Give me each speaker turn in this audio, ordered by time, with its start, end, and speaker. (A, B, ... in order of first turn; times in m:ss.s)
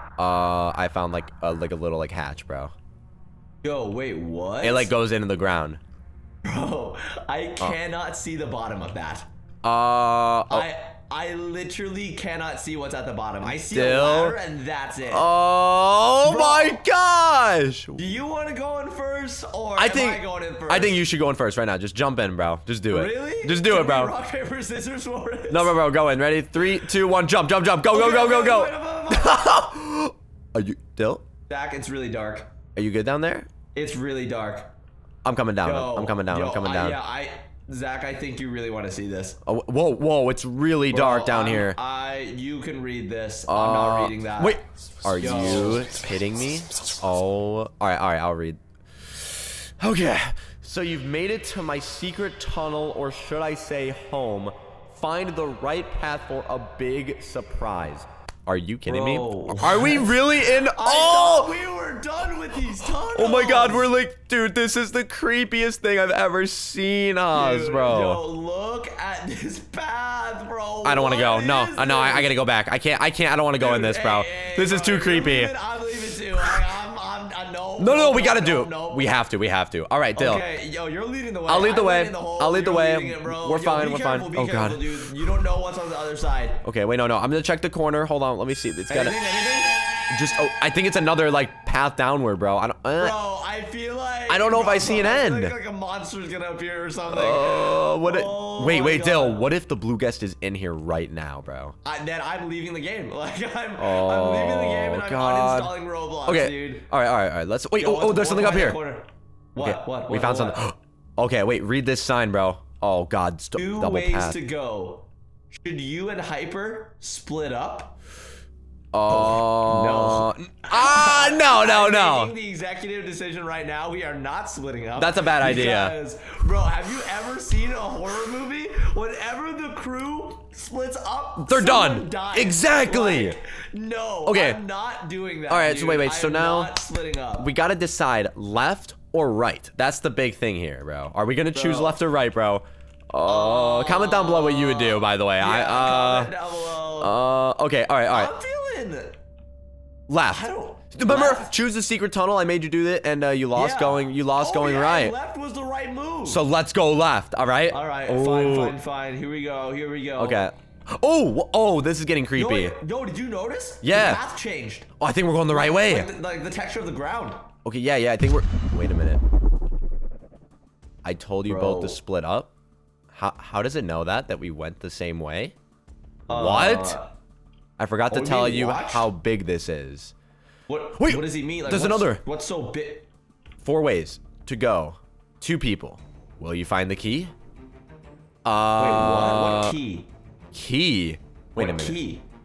0:00.2-0:02.7 A
0:03.6-0:04.9 B
0:04.6-0:05.8 A
0:06.4-0:09.3 B
0:09.6-0:10.7 A
0:10.5-0:15.3 B
0:13.6-0:14.4 A
0:15.0-0:18.0 A
0:16.2-0:16.8 B
0:18.0-0:21.0 B
0:19.8-0:24.1 A
0:22.9-0:25.8 B
0:25.5-0:31.2 A
0:27.9-0:29.5 B
0:31.5-0:32.5 B
0:32.7-0:33.5 A
0:33.7-0:34.7 B
0:35.2-0:37.0 A
0:35.6-0:39.4 B
0:39.4-0:41.8 A
0:40.9-0:44.6 B
0:43.5-1:01.5 A
0:45.2-0:45.9 B
0:58.8-1:03.9 B
1:03.1-1:08.2 A
1:07.3-1:12.3 B
1:10.8-1:15.5 A
1:13.6-1:19.1 B
1:17.8-1:20.4 A
1:20.1-1:26.6 B
1:21.5-1:25.1 A
1:26.6-1:29.3 A
1:28.9-1:29.8 B
1:30.1-1:33.2 A
1:33.0-1:39.5 B
1:34.3-1:35.5 A
1:37.1-1:41.7 A
1:41.8-1:46.9 B
1:43.8-1:48.8 A
1:47.8-1:50.6 B
1:49.6-1:54.4 A
1:53.6-1:58.0 B
1:58.9-2:02.3 A
1:59.1-2:17.5 B
2:05.0-2:05.9 A
2:11.4-2:13.4 A
2:14.2-2:14.6 A
2:15.5-2:16.8 A
2:17.4-2:26.3 A
2:21.5-2:22.0 B
2:23.2-2:27.2 B
2:27.0-2:28.3 A
2:28.1-2:29.2 B
2:30.1-2:35.1 A
2:30.2-2:31.5 B
2:33.5-2:36.4 B
2:36.2-2:38.7 A
2:37.7-2:40.4 B
2:40.2-2:42.8 A
2:42.4-2:44.9 B
2:43.8-2:44.2 A
2:45.0-2:46.1 A
2:45.5-2:47.4 B
2:47.6-2:49.2 A
2:51.0-2:52.5 A
2:51.5-2:52.0 B
2:53.1-2:55.5 A
2:56.3-2:57.1 B
2:56.3-2:57.0 A
2:57.8-3:00.1 A
2:58.1-2:59.1 B
3:00.7-3:03.1 B
3:01.0-3:02.2 A
3:03.6-3:07.3 A
3:08.4-3:09.7 A
3:08.8-3:10.1 B
3:10.5-3:12.0 A
3:11.6-3:12.2 B